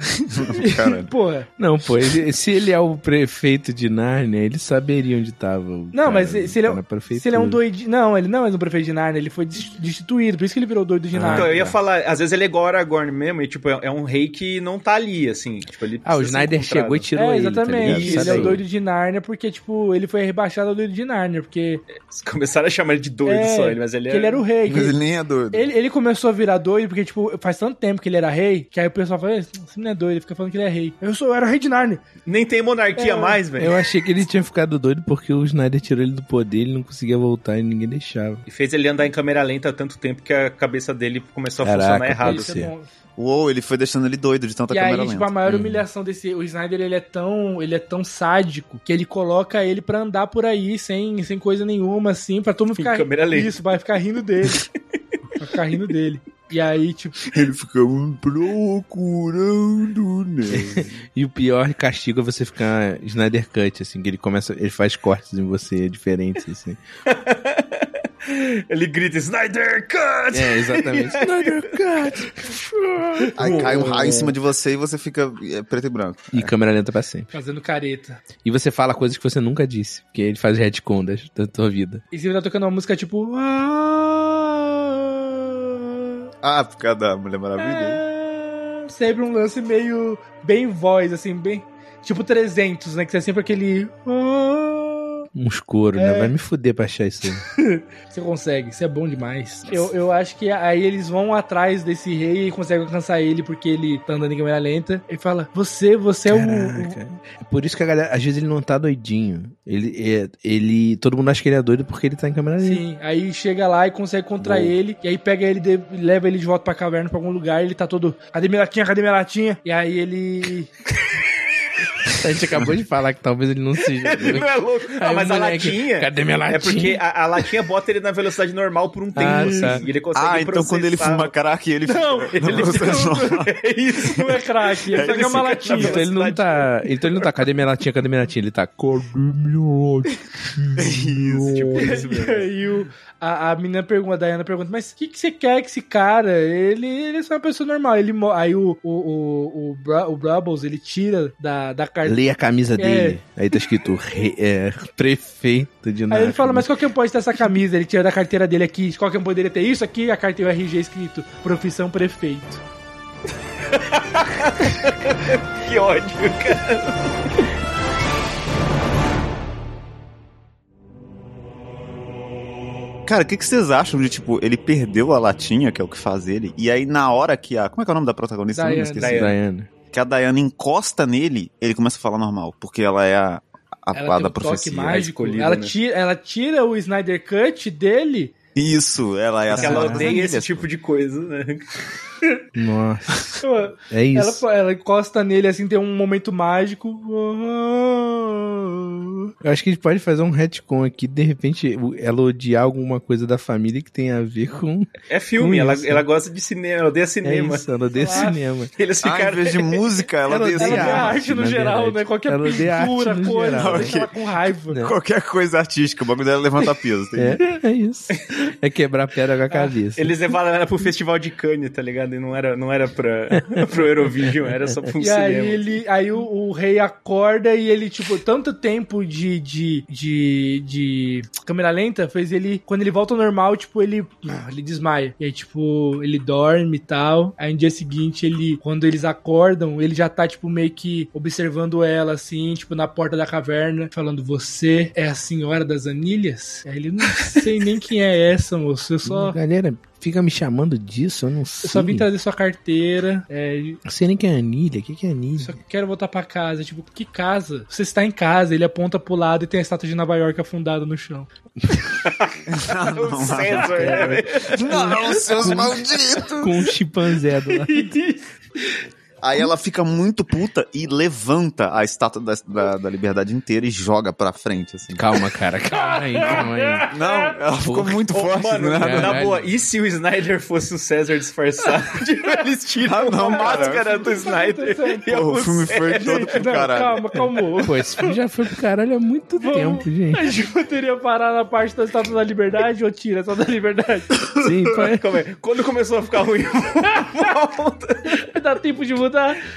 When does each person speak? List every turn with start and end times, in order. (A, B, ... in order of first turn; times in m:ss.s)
0:00.2-0:01.1 A
0:00.5-0:01.5 B
0:01.6-0:07.6 C
0:05.9-0:11.5 B
0:11.1-0:11.8 C
0:11.3-0:17.0 D
0:16.0-0:18.6 C
0:17.2-0:21.8 B
0:17.8-0:18.6 D
0:21.9-0:24.4 D
0:23.2-0:25.0 B
0:24.6-0:25.7 A
0:25.5-0:32.0 B
0:32.2-0:33.7 D
0:33.0-0:33.4 B
0:33.6-0:38.4 C
0:38.5-0:42.5 D
0:41.6-0:42.7 C
0:42.2-0:42.9 B
0:43.2-0:45.4 A
0:44.7-0:54.6 B
0:45.4-0:45.8 C
0:52.8-0:53.6 D
0:55.4-0:57.2 B
0:57.3-1:00.9 A
1:00.5-1:06.8 C
1:07.1-1:11.7 D
1:10.3-1:13.3 C
1:13.2-1:14.3 D
1:13.4-1:16.5 A
1:16.3-1:17.3 C
1:17.3-1:18.2 B
1:18.4-1:22.0 C
1:22.1-1:26.2 B
1:26.4-1:28.0 A
1:27.6-1:35.2 B
1:35.3-1:37.4 C
1:36.0-1:36.3 B
1:37.4-1:47.0 B
1:46.3-1:52.8 C
1:52.6-2:00.7 B
1:54.4-1:54.7 C
2:02.0-2:07.0 C
2:03.8-2:11.3 D
2:09.2-2:09.8 C
2:09.2-2:09.8 B
2:10.1-2:13.5 A
2:11.9-2:13.4 B
2:12.3-2:17.2 D
2:14.1-2:16.0 B
2:14.9-2:15.7 A
2:15.7-2:21.8 C
2:20.8-2:21.8 A
2:21.5-2:22.5 D
2:21.8-2:32.2 B
2:32.0-2:36.7 C
2:32.8-2:33.2 B
2:36.1-2:42.6 B
2:43.7-2:47.0 D
2:53.0-2:59.3 A
2:58.5-2:59.2 B
2:59.0-2:59.3 D
2:59.1-2:59.7 C
2:59.9-3:05.1 A
3:03.9-3:08.3 B
3:04.9-3:05.7 D
3:08.5-3:10.7 A
3:09.5-3:10.2 C
3:09.5-3:11.8 D
3:12.5-3:14.4 C
3:13.4-3:19.3 B
3:19.4-3:26.0 C
3:25.1-3:27.6 D
3:27.2-3:28.7 C
3:27.9-3:28.4 B
3:28.7-3:30.0 D
3:29.0-3:31.2 A
3:30.3-3:34.0 C
3:30.6-3:34.8 B
3:33.5-3:37.4 A
3:37.1-3:40.1 C
3:40.0-3:45.7 D
3:43.4-3:43.6 C
3:45.0-4:09.4 B
4:09.0-4:12.1 C
4:11.6-4:13.8 B
4:13.8-4:15.5 C
4:15.4-4:21.3 B
4:22.0-4:24.6 D
4:22.4-4:26.7 A
4:23.8-4:27.9 C
4:24.6-4:25.7 B
4:27.3-4:28.8 B
4:29.2-4:35.0 A
4:34.9-4:36.9 C
4:35.8-4:36.9 B
4:36.9-4:39.2 A
4:37.6-4:38.0 C
4:38.1-4:46.4 D
4:38.8-4:39.4 C
4:42.8-4:44.0 A
4:43.0-4:48.1 B
4:45.1-4:47.2 A
4:47.6-4:50.2 C
4:49.4-4:54.2 B
4:54.4-4:55.0 C
4:54.7-4:58.2 D
4:58.1-4:59.4 B